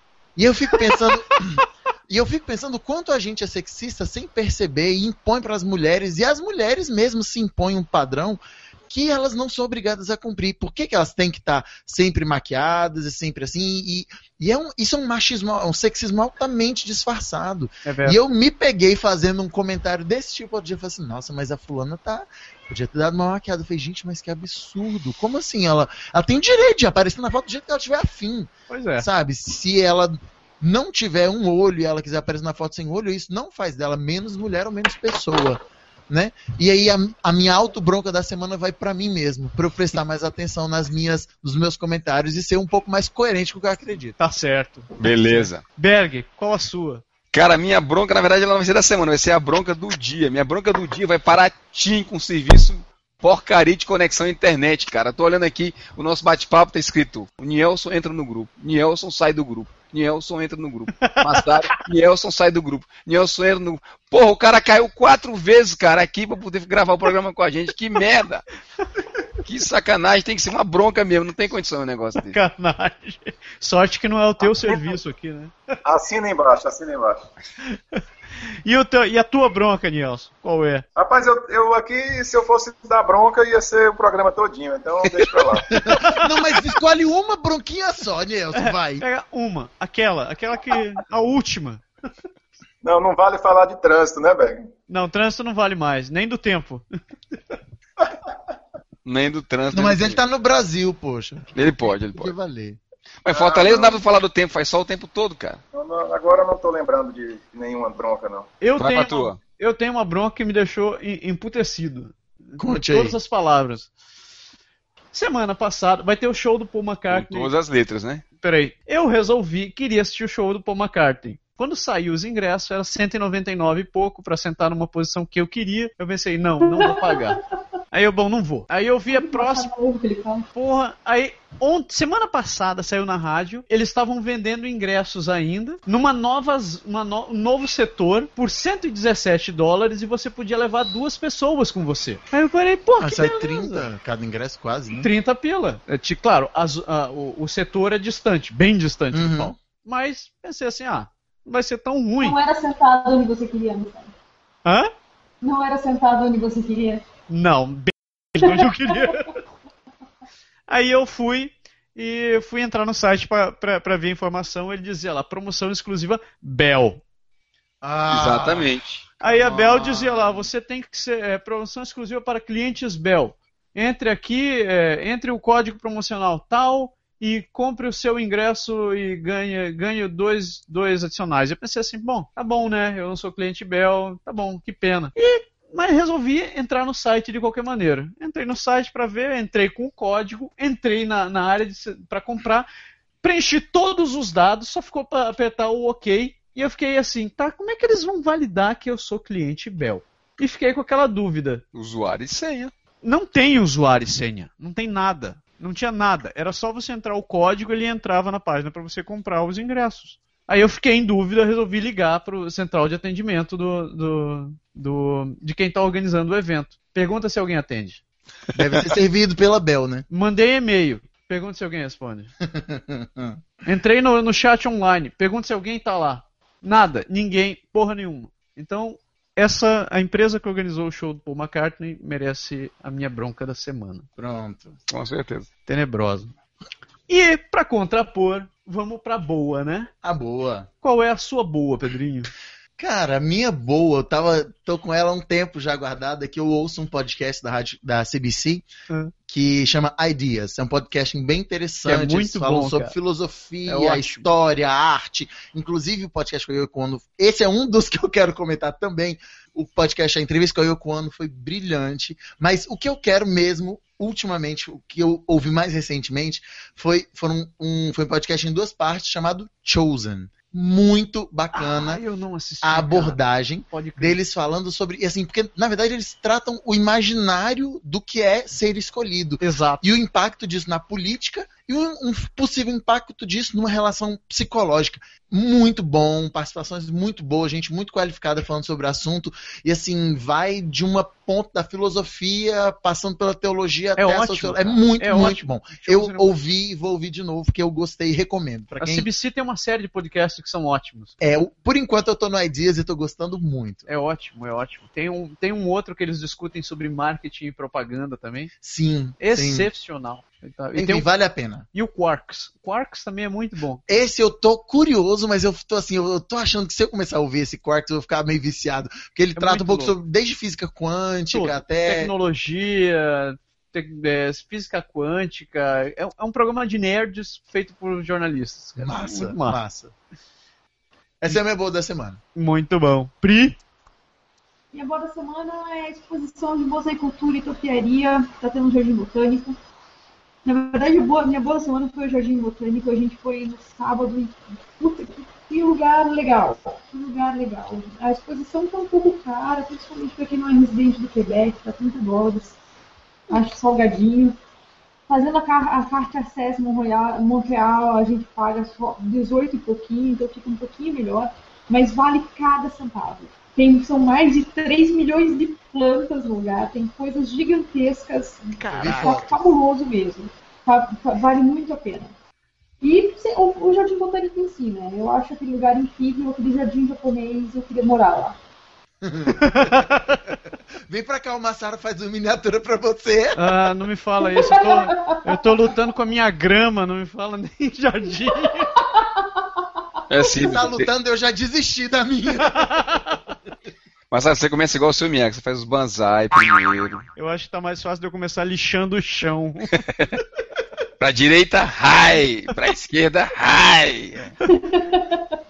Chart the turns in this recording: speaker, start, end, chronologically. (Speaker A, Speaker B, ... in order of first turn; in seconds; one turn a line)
Speaker A: 0.3-44.2
Speaker B: 17.8-18.2
Speaker B: 28.7-29.1
Speaker B: 44.2-47.0
Speaker C: 45.0-45.6
Speaker C: 47.3-68.5
Speaker B: 61.0-61.5
Speaker C: 69.4-72.3
Speaker B: 72.2-75.5
Speaker D: 75.8-77.2
Speaker B: 77.7-78.0
Speaker B: 78.6-80.8
Speaker D: 81.0-85.7
Speaker A: 85.7-89.0
Speaker B: 85.9-86.4
Speaker B: 88.5-91.8
Speaker D: 92.8-94.7
Speaker B: 94.9-96.8
Speaker C: 99.0-100.2
Speaker A: 99.7-102.8
Speaker C: 101.5-102.3
Speaker C: 103.2-105.6
Speaker D: 103.3-104.0
Speaker D: 105.7-108.5
Speaker B: 108.6-113.9
Speaker C: 108.8-109.4
Speaker A: 112.6-113.2
Speaker B: 115.1-117.5
Speaker C: 117.1-118.2
Speaker B: 118.4-127.4
Speaker E: 126.6-127.4
Speaker B: 127.9-129.7
Speaker E: 129.1-130.5
Speaker B: 130.5-143.8
Speaker A: 143.0-145.1
Speaker B: 144.9-152.3
Speaker A: 149.1-149.6
Speaker E: 152.2-154.1
Speaker B: 154.6-154.9
Speaker E: 155.4-157.0
Speaker B: 157.3-159.3
Speaker E: 158.4-159.1
Speaker B: 160.7-167.0
Speaker A: 167.8-170.5
Speaker C: 168.1-169.1
Speaker B: 169.2-192.7
Speaker B: 193.2-201.6
Speaker C: 201.7-202.7
Speaker B: 203.0-218.0
Speaker A: 218.5-220.1
Speaker B: 220.1-222.3
Speaker A: 222.4-223.4
Speaker B: 223.7-234.1
Speaker A: 234.2-234.8
Speaker C: 234.9-235.5
Speaker B: 235.7-236.3
Speaker B: 237.1-239.9
Speaker A: 240.0-240.7
Speaker B: 240.8-242.3
Speaker A: 242.8-248.6
Speaker A: 249.3-272.0
Speaker B: 251.8-252.9
Speaker B: 253.7-254.3
Speaker B: 271.5-274.2
Speaker A: 272.6-299.1
Speaker B: 279.4-279.9
Speaker B: 294.0-296.4
Speaker B: 298.8-301.2
Speaker A: 301.2-303.8
Speaker B: 303.9-308.5
Speaker A: 308.6-309.7
Speaker B: 309.2-311.1
Speaker A: 310.7-311.6
Speaker B: 311.7-313.8
Speaker A: 313.9-322.1
Speaker B: 319.4-319.9
Speaker B: 321.3-329.6
Speaker A: 328.8-329.9
Speaker A: 331.2-332.2
Speaker B: 332.3-333.6
Speaker E: 334.7-339.6
Speaker E: 340.4-352.6
Speaker E: 353.3-354.3
Speaker E: 355.1-372.1
Speaker B: 368.6-369.3
Speaker A: 368.7-369.4
Speaker E: 372.8-378.4
Speaker A: 379.0-380.1
Speaker B: 379.4-380.2
Speaker A: 380.9-383.5
Speaker B: 383.4-388.7
Speaker E: 384.2-385.4
Speaker E: 388.5-389.4
Speaker C: 390.1-390.9
Speaker A: 390.4-392.7
Speaker B: 392.5-393.1
Speaker C: 394.1-397.1
Speaker B: 397.1-399.8
Speaker C: 399.8-400.1
Speaker C: 401.0-404.3
Speaker E: 404.5-405.4